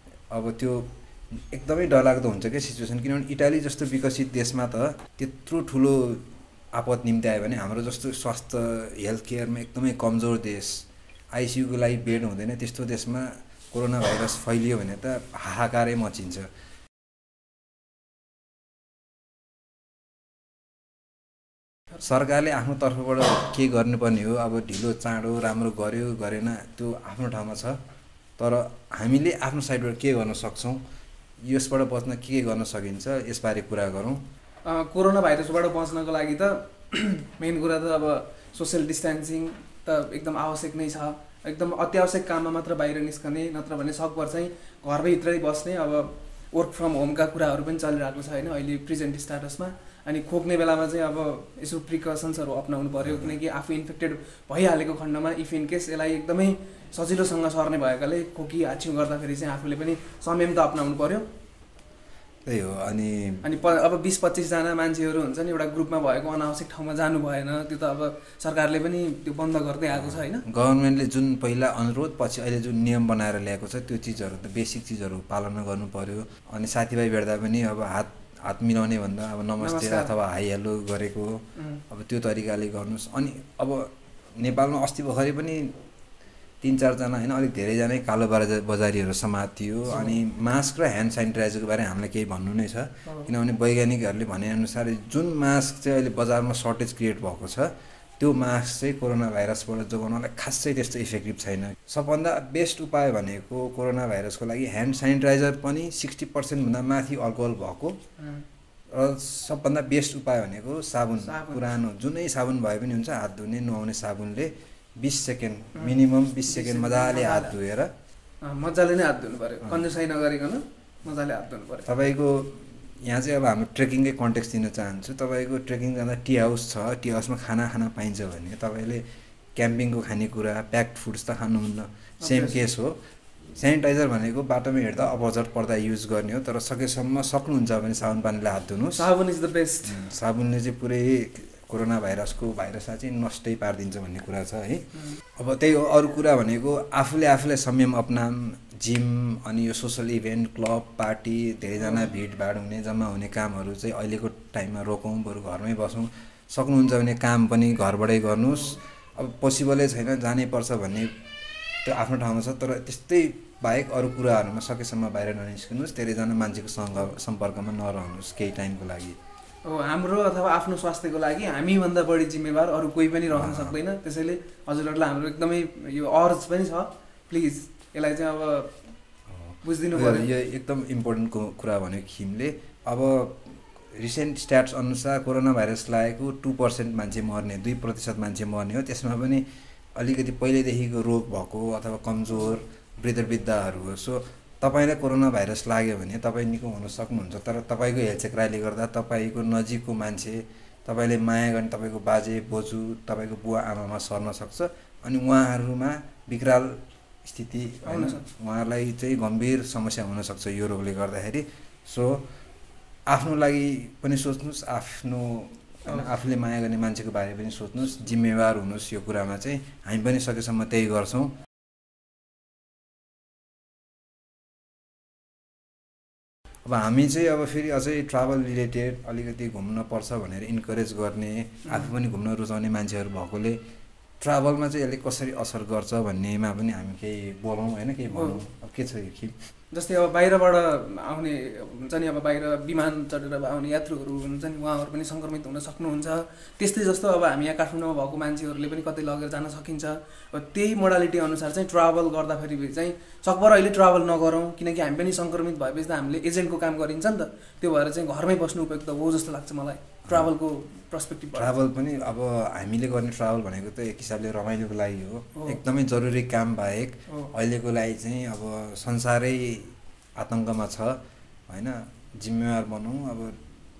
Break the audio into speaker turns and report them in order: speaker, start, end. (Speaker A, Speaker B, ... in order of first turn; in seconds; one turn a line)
Speaker A: 0.3-16.5
Speaker A: 22.0-27.8
Speaker A: 28.4-30.8
Speaker A: 31.4-34.2
Speaker B: 34.6-61.3
Speaker A: 53.0-53.3
Speaker A: 62.5-63.5
Speaker B: 63.4-70.4
Speaker A: 69.9-85.7
Speaker B: 79.6-80.1
Speaker A: 86.6-108.0
Speaker B: 89.9-90.2
Speaker B: 93.1-93.3
Speaker B: 108.2-108.5
Speaker A: 108.9-117.9
Speaker B: 111.2-111.6
Speaker B: 115.8-117.6
Speaker B: 118.4-121.9
Speaker A: 121.9-129.0
Speaker A: 129.6-133.0
Speaker B: 132.2-132.6
Speaker A: 133.6-139.1
Speaker B: 138.9-140.1
Speaker A: 139.8-144.9
Speaker A: 145.4-161.1
Speaker B: 151.8-152.1
Speaker A: 161.8-169.2
Speaker B: 169.7-178.8
Speaker A: 173.3-173.8
Speaker A: 179.3-189.4
Speaker B: 179.6-180.3
Speaker A: 190.0-212.2
Speaker B: 207.8-208.3
Speaker A: 213.1-221.3
Speaker A: 226.7-233.6
Speaker B: 231.7-231.9
Speaker A: 234.2-239.4
Speaker B: 238.1-238.4
Speaker B: 239.7-261.7
Speaker A: 261.4-273.4
Speaker B: 265.4-265.6